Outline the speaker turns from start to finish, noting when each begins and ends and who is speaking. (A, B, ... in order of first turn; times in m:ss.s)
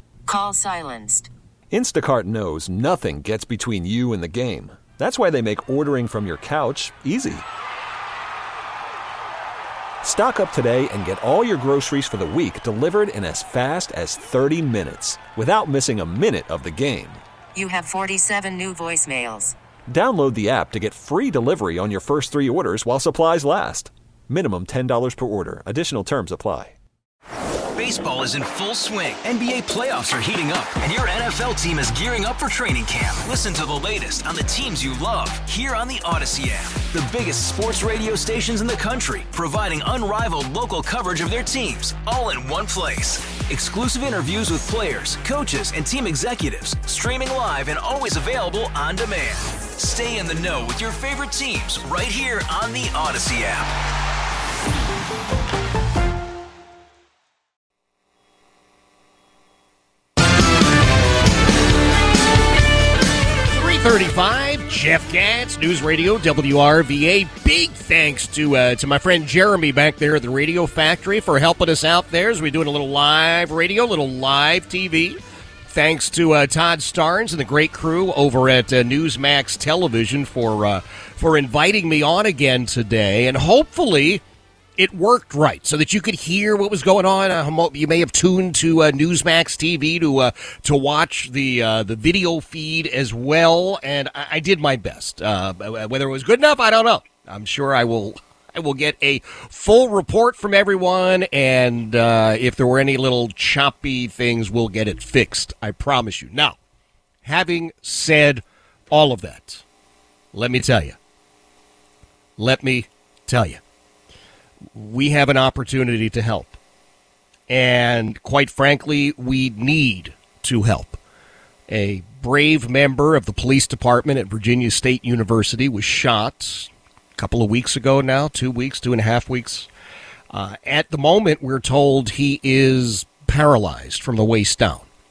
0:00.2-0:01.3 A
0:01.7-0:07.4 B
0:10.0-0:17.2 B
0:17.5-0:19.5 A
0:19.9-0:26.8 B
0:27.8-0:53.7 C
1:03.5-1:24.2 D
1:24.8-1:46.6 D
1:47.2-1:49.6 D
1:50.3-1:51.0 D
1:52.4-1:53.6 D
1:54.7-1:56.6 D
1:57.5-2:01.0 D
2:01.7-2:09.7 D
2:10.3-2:14.8 D